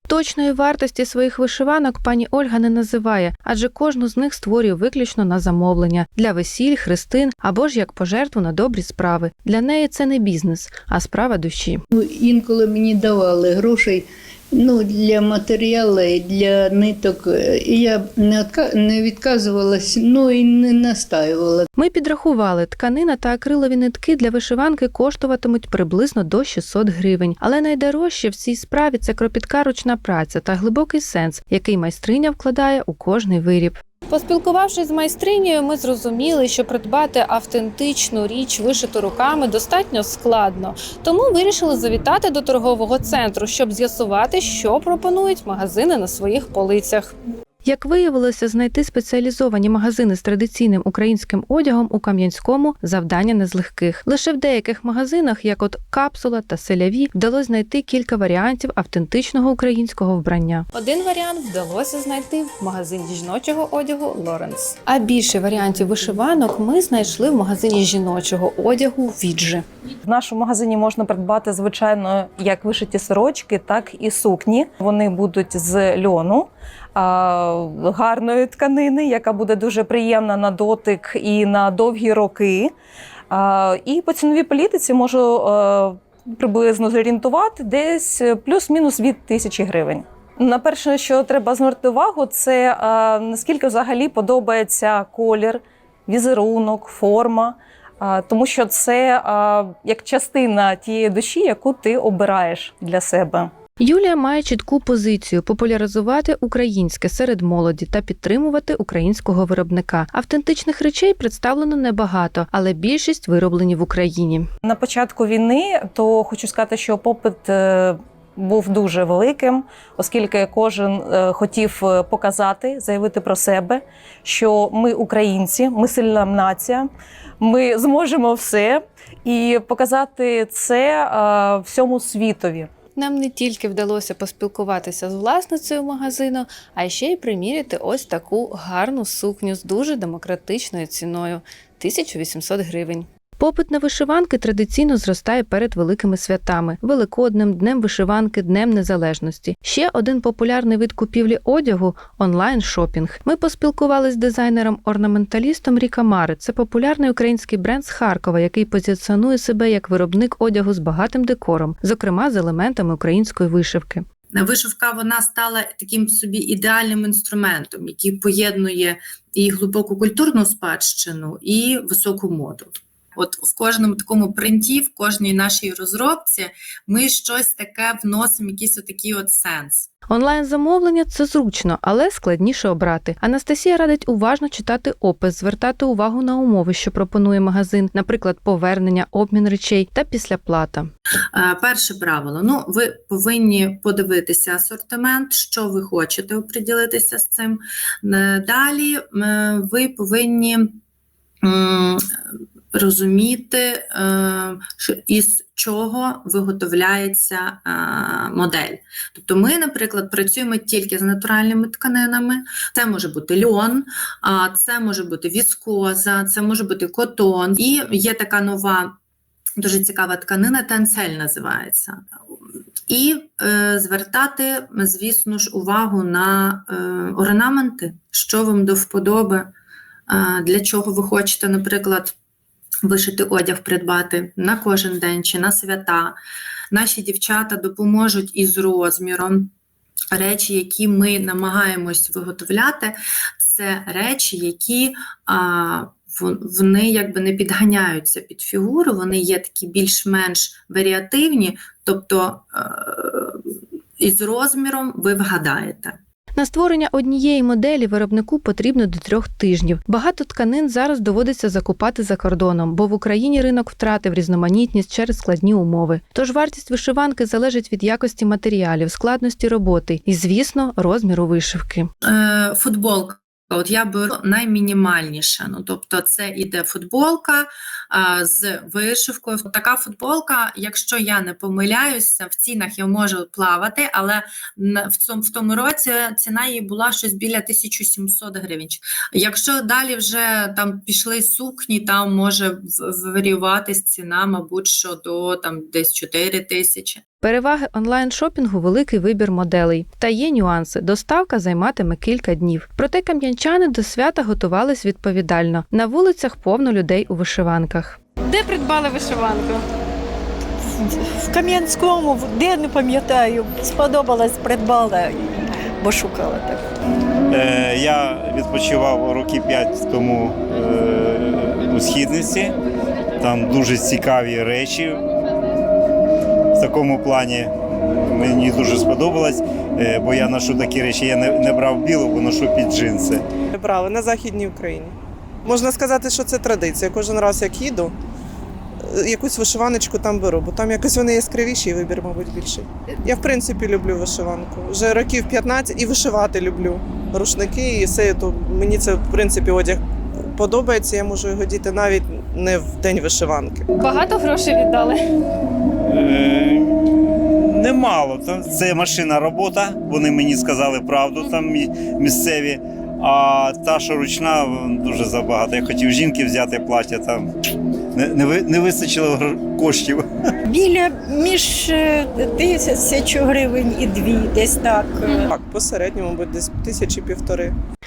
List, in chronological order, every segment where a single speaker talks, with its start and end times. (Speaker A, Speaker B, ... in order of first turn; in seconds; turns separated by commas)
Speaker A: 0.1-11.8, Speaker B: 11.9-21.7, Speaker A: 21.8-69.6, Speaker C: 70.0-82.7, Speaker C: 83.3-103.5, Speaker A: 103.8-114.5, Speaker C: 114.7-126.9, Speaker C: 127.4-132.7, Speaker A: 133.0-164.0, Speaker D: 164.3-179.9, Speaker A: 180.1-190.9, Speaker D: 191.3-200.8, Speaker D: 201.4-202.0, Speaker D: 202.7-218.9, Speaker D: 219.6-222.0, Speaker D: 222.9-229.5, Speaker D: 230.1-232.1, Speaker D: 232.8-236.2, Speaker D: 236.7-239.5, Speaker D: 240.1-256.0, Speaker A: 256.4-271.9, Speaker D: 272.0-297.0, Speaker A: 297.2-308.0, Speaker E: 308.3-309.6, Speaker E: 310.7-316.6, Speaker F: 317.3-322.5, Speaker F: 323.2-325.0, Speaker F: 326.5-333.2, Speaker G: 333.6-334.9, Speaker G: 335.5-337.9, Speaker G: 338.9-349.8, Speaker G: 350.4-353.6, Speaker A: 353.8-355.0, Speaker F: 355.9-367.3, Speaker F: 367.9-370.0, Speaker E: 370.5-375.2, Speaker G: 375.1-377.5